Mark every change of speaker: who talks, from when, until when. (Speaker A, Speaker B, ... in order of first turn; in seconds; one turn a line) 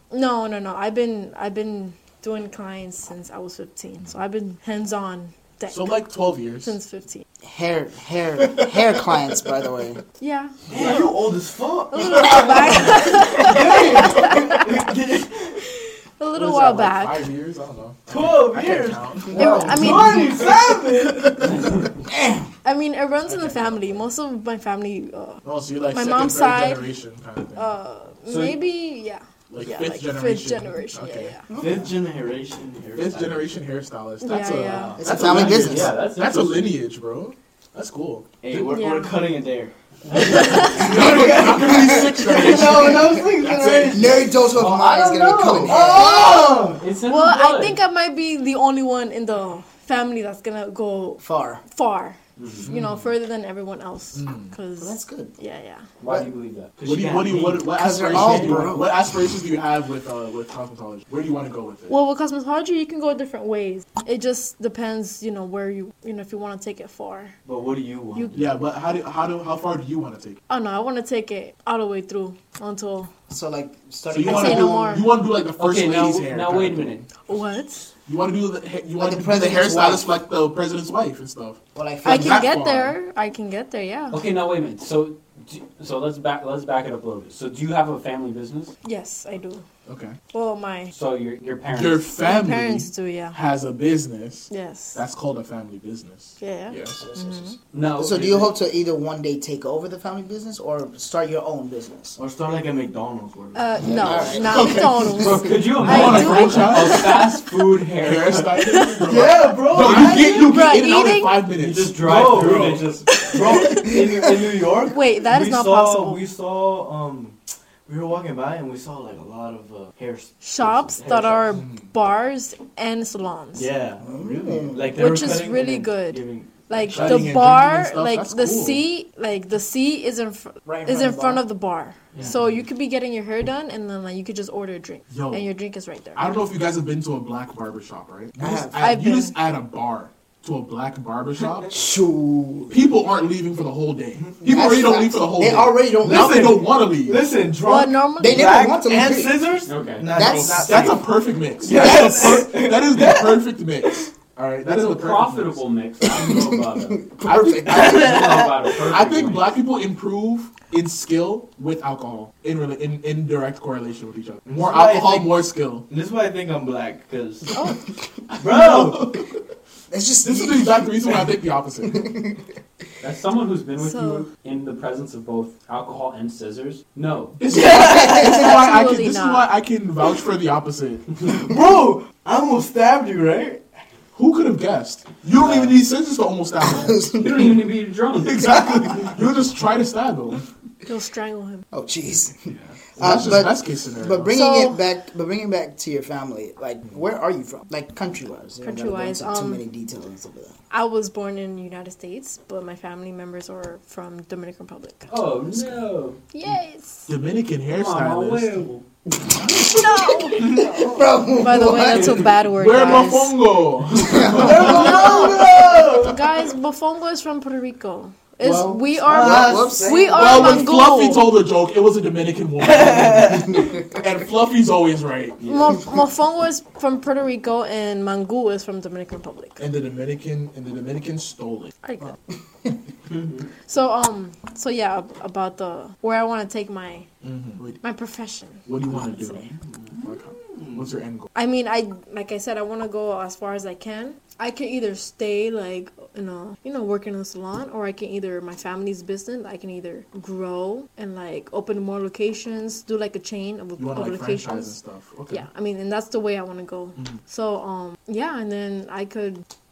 Speaker A: 0.1-7.2
Speaker B: 5.7-6.7
Speaker C: 7.4-10.0
Speaker B: 8.4-9.3
Speaker A: 10.2-11.0
Speaker B: 10.7-11.1
Speaker D: 10.7-15.6
Speaker A: 11.9-14.9
Speaker B: 12.2-12.7
Speaker A: 15.6-17.2
Speaker B: 16.3-21.9
Speaker D: 18.1-21.5
Speaker A: 19.3-20.6
Speaker C: 22.0-22.5
Speaker A: 22.6-26.9
Speaker B: 23.3-23.9
Speaker B: 25.4-27.7
Speaker A: 27.6-31.4
Speaker E: 28.3-28.6
Speaker B: 29.5-31.3
Speaker C: 31.5-31.9
Speaker D: 31.5-33.5
Speaker B: 32.9-38.8
Speaker A: 34.2-35.0
Speaker D: 34.5-35.4
Speaker C: 35.0-35.9
Speaker E: 35.3-36.8
Speaker D: 38.4-46.8
Speaker A: 38.7-39.2
Speaker A: 40.1-41.0
Speaker B: 40.2-44.1
Speaker C: 43.9-46.5
Speaker E: 44.5-46.0
Speaker E: 46.8-47.8
Speaker A: 47.1-55.9
Speaker C: 51.2-51.6
Speaker E: 52.4-52.7
Speaker B: 52.6-53.0
Speaker B: 54.1-54.5
Speaker C: 54.8-55.3
Speaker E: 56.0-56.8
Speaker C: 56.0-56.3
Speaker D: 56.8-58.7
Speaker B: 56.9-61.9
Speaker C: 57.8-58.9
Speaker A: 61.9-67.3
Speaker D: 67.4-68.5
Speaker A: 68.1-68.4
Speaker B: 68.3-70.4
Speaker A: 70.5-73.1
Speaker C: 73.3-75.1
Speaker B: 74.1-77.0
Speaker A: 74.2-75.1
Speaker E: 75.6-77.0
Speaker A: 77.2-77.9
Speaker B: 78.1-82.9
Speaker C: 79.0-80.1
Speaker C: 81.8-82.5
Speaker A: 82.0-84.2
Speaker E: 84.1-88.7
Speaker A: 88.8-89.6
Speaker B: 89.9-90.2
Speaker A: 90.3-90.9
Speaker E: 90.9-92.1
Speaker B: 91.7-97.0
Speaker A: 92.2-93.4
Speaker A: 94.5-95.0
Speaker A: 96.4-97.5
Speaker C: 96.9-102.2
Speaker E: 97.7-98.5
Speaker D: 102.2-104.3
Speaker A: 103.5-107.5
Speaker C: 103.8-105.1
Speaker B: 104.4-105.2
Speaker E: 105.2-108.8
Speaker B: 105.8-107.3
Speaker B: 108.0-112.9
Speaker A: 108.5-109.0
Speaker D: 109.0-110.7
Speaker A: 109.9-111.5
Speaker E: 111.5-113.2
Speaker D: 112.0-121.6
Speaker A: 113.1-114.3
Speaker A: 114.8-116.2
Speaker A: 120.4-123.7
Speaker B: 121.5-121.9
Speaker D: 123.6-127.3
Speaker C: 124.0-125.0
Speaker A: 124.9-136.3
Speaker B: 126.9-128.8
Speaker C: 130.6-131.4
Speaker B: 135.1-135.5
Speaker B: 136.1-141.7
Speaker C: 138.4-138.8
Speaker A: 138.8-139.3
Speaker C: 141.7-142.8
Speaker B: 142.7-147.3
Speaker C: 144.4-146.6
Speaker D: 146.0-151.1
Speaker A: 147.6-148.4
Speaker C: 148.2-149.5
Speaker E: 149.7-150.1
Speaker C: 150.1-150.9
Speaker B: 150.2-155.6
Speaker D: 151.6-154.1
Speaker E: 154.6-157.1
Speaker C: 156.1-158.0
Speaker B: 157.2-165.9
Speaker D: 157.4-158.7
Speaker E: 157.7-159.6
Speaker D: 164.5-167.6
Speaker D: 168.3-169.2
Speaker B: 168.5-169.2
Speaker C: 169.9-171.1
Speaker B: 170.2-172.1
Speaker C: 171.8-172.4
Speaker E: 173.0-177.4
Speaker A: 173.8-174.3
Speaker B: 177.4-181.2
Speaker D: 177.5-178.5
Speaker A: 177.9-179.5
Speaker D: 181.2-183.6
Speaker B: 184.2-187.0
Speaker C: 186.7-187.6
Speaker E: 187.1-188.9
Speaker B: 188.2-190.4
Speaker A: 190.8-191.7
Speaker C: 191.7-200.5
Speaker E: 192.5-192.8
Speaker B: 193.0-194.3
Speaker A: 194.3-194.8
Speaker A: 198.6-199.6
Speaker A: 200.7-205.1
Speaker E: 205.1-206.2
Speaker A: 206.3-207.1
Speaker B: 207.1-208.6
Speaker E: 207.7-208.8
Speaker C: 209.3-212.3
Speaker B: 209.4-209.7
Speaker A: 209.7-210.6
Speaker D: 210.4-210.7
Speaker A: 211.4-213.3
Speaker B: 212.5-215.1
Speaker C: 214.0-215.7
Speaker D: 214.2-216.2
Speaker A: 214.6-221.3
Speaker B: 218.4-218.9
Speaker D: 218.9-220.6
Speaker C: 219.2-220.1
Speaker B: 220.1-225.4
Speaker D: 222.6-223.7
Speaker D: 225.4-225.8
Speaker A: 225.5-229.6
Speaker B: 229.6-231.7
Speaker A: 231.8-232.2
Speaker A: 233.7-237.1
Speaker B: 237.2-237.8
Speaker A: 237.8-239.5
Speaker B: 238.7-241.3
Speaker D: 239.6-240.9
Speaker A: 241.3-259.4
Speaker B: 253.8-255.4